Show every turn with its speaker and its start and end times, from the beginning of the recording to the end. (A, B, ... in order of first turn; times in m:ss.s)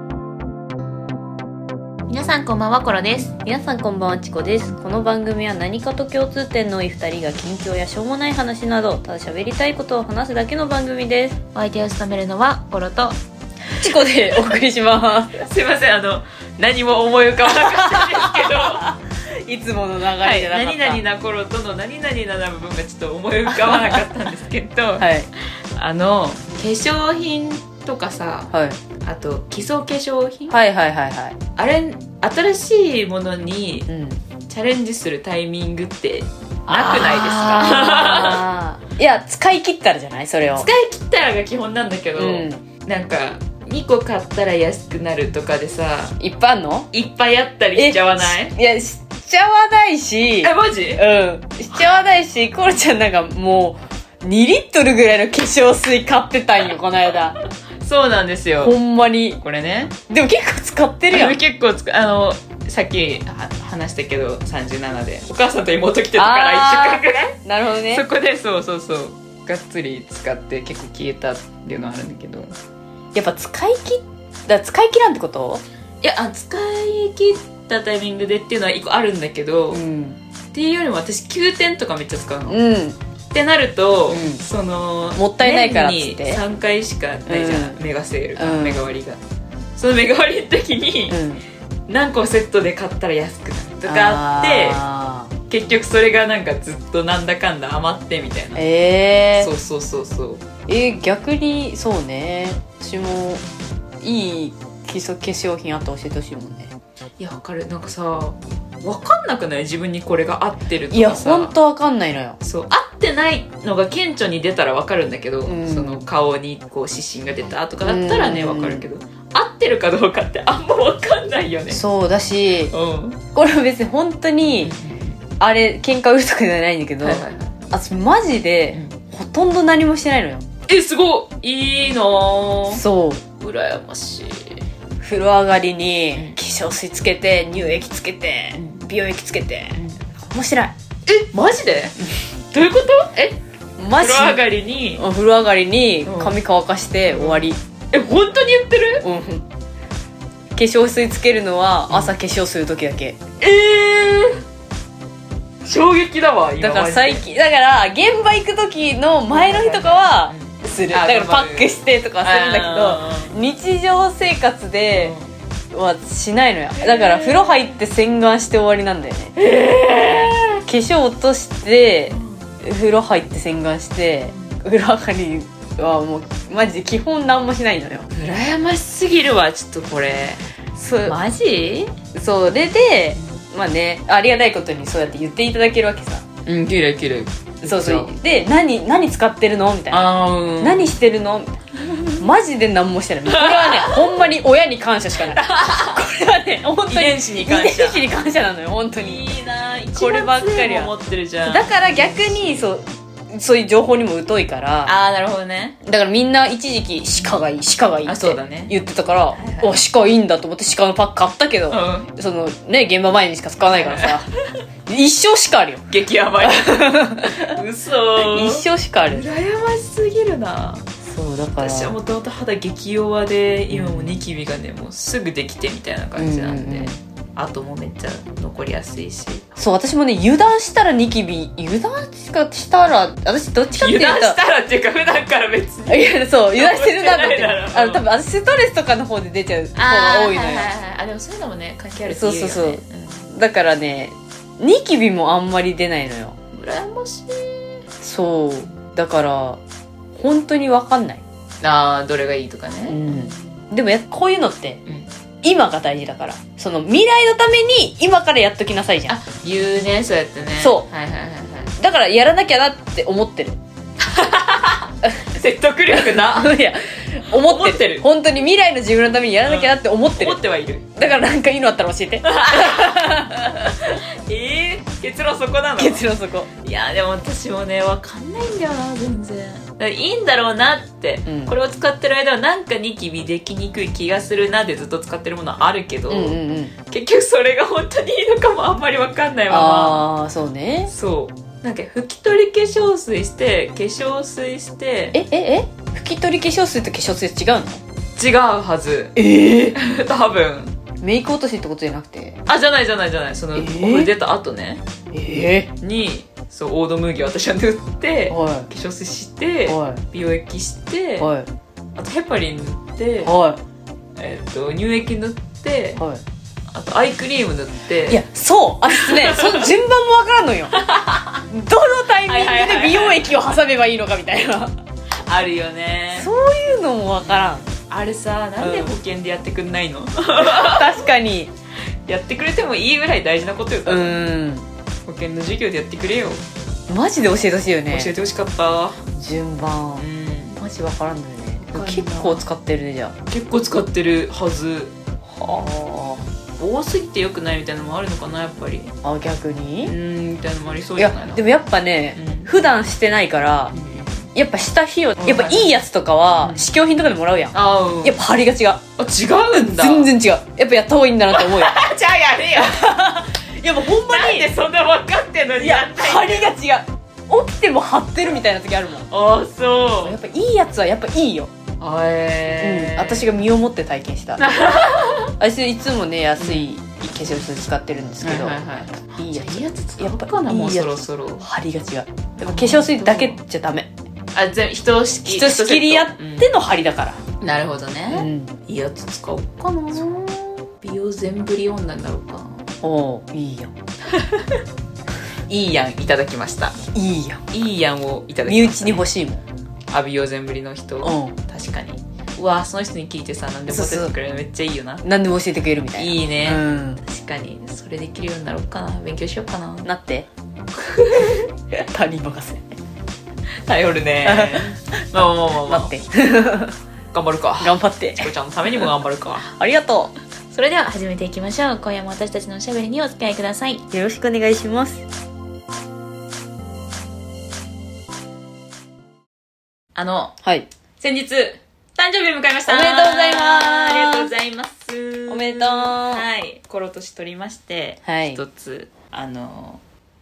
0:02.1-0:03.3 A
0:03.4-0:11.4 B
0:11.6-0:13.2 A
0:13.7-0:15.4 B
0:15.4-0:18.9 A
0:17.4-0:21.0 B
0:20.2-0:28.5 A
0:23.5-0:24.1 B
0:25.0-0:25.3 B
0:28.5-0:28.8 B
0:29.0-0:30.6 A
0:30.5-0:31.4 B
0:31.6-0:33.9 A
0:33.9-0:34.2 B
0:34.4-0:38.4 A
0:36.7-0:40.7 B
0:40.6-0:46.2 A
0:42.2-0:42.6 B
0:46.2-0:46.9 B
0:46.9-0:48.6 A
0:47.8-0:57.4 B
0:50.4-0:51.1 A
0:57.8-0:58.8 A
0:58.6-0:59.4 B
0:59.4-1:00.0 A
1:00.1-1:01.4 B
1:01.1-1:12.5 A
1:06.2-1:08.1 B
1:13.2-1:15.6 B
1:16.0-1:19.8 A
1:19.7-1:20.2 B
1:20.5-1:22.6 A
1:22.5-1:23.0 B
1:23.3-1:29.2 A
1:24.1-1:24.4 B
1:25.2-1:26.4 B
1:27.3-1:27.8 B
1:28.4-1:28.9 B
1:29.8-1:31.2 A
1:31.1-1:31.4 B
1:31.9-1:34.8 A
1:33.9-1:35.3 B
1:35.5-1:38.6 A
1:38.6-1:39.5 B
1:39.4-1:40.4 A
1:40.7-1:43.4 B
1:44.0-1:46.7 B
1:47.2-1:51.6 A
1:50.9-1:52.4 B
1:52.4-2:01.8 A
1:55.4-1:56.0 B
1:57.8-1:58.8 B
2:01.7-2:02.7 B
2:02.7-2:03.2 A
2:03.3-2:04.8 B
2:04.6-2:05.2 A
2:05.4-2:10.5 B
2:07.0-2:07.6 A
2:10.7-2:12.8 A
2:12.7-2:13.2 B
2:13.4-2:14.6 A
2:15.0-2:20.7 B
2:18.6-2:18.8 A
2:21.1-2:23.4 A
2:23.8-2:24.4 B
2:24.0-2:25.1 A
2:25.0-2:27.6 B
2:26.0-2:26.4 A
2:27.1-2:29.1 A
2:29.0-2:29.5 B
2:30.6-2:33.2 B
2:31.9-2:32.2 A
2:33.4-2:34.4 A
2:35.6-2:37.3 A
2:36.6-2:45.2 B
2:39.3-2:43.4 A
2:45.0-2:45.3 A
2:45.7-2:49.3 B
2:46.8-2:47.8 A
2:49.4-2:50.6 A
2:50.7-2:58.1 B
2:52.1-2:52.5 A
2:54.3-2:54.6 A
2:58.1-3:00.4 A
3:00.8-3:01.2 B
3:01.0-3:01.9 A
3:02.1-3:06.2 B
3:06.5-3:08.1 A
3:07.6-3:10.1 B
3:09.9-3:10.9 A
3:10.6-3:11.6 B
3:11.8-3:12.3 A
3:12.2-3:19.3 B
3:13.3-3:14.2 A
3:15.2-3:16.0 A
3:16.9-3:18.0 A
3:19.0-3:22.7 A
3:19.9-3:24.9 B
3:24.9-3:25.8 A
3:25.8-3:34.3 B
3:27.2-3:27.4 A
3:28.1-3:28.8 A
3:29.3-3:29.8 A
3:31.7-3:32.1 A
3:33.7-3:34.2 A
3:34.9-3:35.8 B
3:35.9-3:40.9 A
3:36.4-3:37.6 B
3:38.2-3:39.2 B
3:41.0-3:42.0 B
3:41.6-3:49.5 A
3:43.7-3:44.2 B
3:46.2-3:47.0 B
3:49.6-3:54.4 B
3:53.8-3:58.0 A
3:55.9-4:00.7 B
3:59.8-4:03.3 A
4:02.1-4:06.4 B
4:06.5-4:07.8 A
4:08.0-4:09.6 B
4:10.1-4:11.2 B
4:11.6-4:13.4 A
4:12.9-4:14.8 B
4:15.4-4:19.2 B
4:19.1-4:21.7 A
4:20.6-4:20.9 B
4:21.8-4:23.6 B
4:24.0-4:26.6 A
4:25.0-4:25.3 B
4:25.9-4:30.4 B
4:27.3-4:28.0 A
4:29.4-4:30.9 A
4:31.0-4:33.5 B
4:32.2-4:36.1 A
4:35.8-4:36.5 B
4:36.6-4:50.1 A
4:41.3-4:41.5 B
4:46.1-4:46.7 B
4:49.5-4:50.9 B
4:50.9-4:55.2 A
4:55.1-4:57.8 B
4:58.2-4:59.2 A
4:59.2-4:59.8 B
4:59.7-5:00.8 A
5:01.0-5:02.4 B
5:02.5-5:04.8 A
5:03.6-5:04.1 B
5:05.1-5:05.7 B
5:05.8-5:11.3 A
5:08.3-5:08.7 B
5:09.7-5:10.0 B
5:11.2-5:11.5 B
5:12.0-5:13.4 A
5:13.2-5:13.6 B
5:14.2-5:16.0 A
5:16.7-5:18.2 A
5:18.1-5:20.7 B
5:18.9-5:19.7 A
5:20.7-5:21.4 A
5:21.5-5:24.7 B
5:22.2-5:23.3 A
5:25.3-5:26.3 A
5:26.2-5:27.7 B
5:27.8-5:31.1 A
5:28.6-5:28.9 B
5:30.4-5:31.5 B
5:32.1-5:34.1 A
5:33.9-5:34.7 B
5:35.1-5:36.4 A
5:36.9-5:38.1 B
5:37.9-5:39.0 A
5:39.1-5:40.1 B
5:40.0-5:40.6 A
5:40.6-5:43.2 B
5:41.6-5:42.4 A
5:43.3-5:44.9 A
5:45.3-5:46.2 B
5:46.6-5:48.9 A
5:49.0-5:49.9 B
5:49.8-5:51.4 A
5:51.0-5:53.7 B
5:52.2-5:52.5 A
5:53.7-5:54.3 A
5:54.4-5:58.8 B
5:55.2-5:55.7 A
5:56.4-5:56.7 A
5:57.5-5:58.2 A
5:59.0-6:00.1 A
5:59.5-6:01.8 B
6:01.3-6:02.9 A
6:02.6-6:04.5 B
6:03.9-6:06.5 A
6:05.6-6:09.1 B
6:09.1-6:10.2 A
6:10.0-6:11.5 B
6:11.8-6:13.3 A
6:12.6-6:14.8 B
6:14.4-6:15.3 A
6:15.4-6:23.9 B
6:16.4-6:16.7 A
6:18.2-6:21.5 A
6:22.4-6:23.4 A
6:24.3-6:26.5 A
6:25.3-6:27.2 B
6:27.4-6:32.7 A
6:28.1-6:28.5 B
6:32.8-6:33.7 B
6:34.1-6:34.6 A
6:35.5-6:36.8 A
6:36.9-6:37.4 B
6:37.5-6:39.1 A
6:38.5-6:39.4 B
6:39.9-6:45.0 A
6:41.0-6:41.4 B
6:43.7-6:44.1 B
6:45.0-6:47.0 B
6:46.0-6:49.9 A
6:49.8-6:50.3 B
6:50.7-6:51.5 A
6:51.2-6:52.8 B
6:53.7-6:55.9 A
6:54.2-6:56.8 B
6:57.1-6:59.5 A
6:57.6-6:58.9 B
6:59.4-7:00.1 B
7:00.5-7:03.8 A
7:03.9-7:05.0 B
7:10.0-7:10.3 A
7:10.4-7:10.7 B
7:11.0-7:19.8 A
7:12.7-7:14.3 B
7:15.3-7:16.2 B
7:18.0-7:18.4 B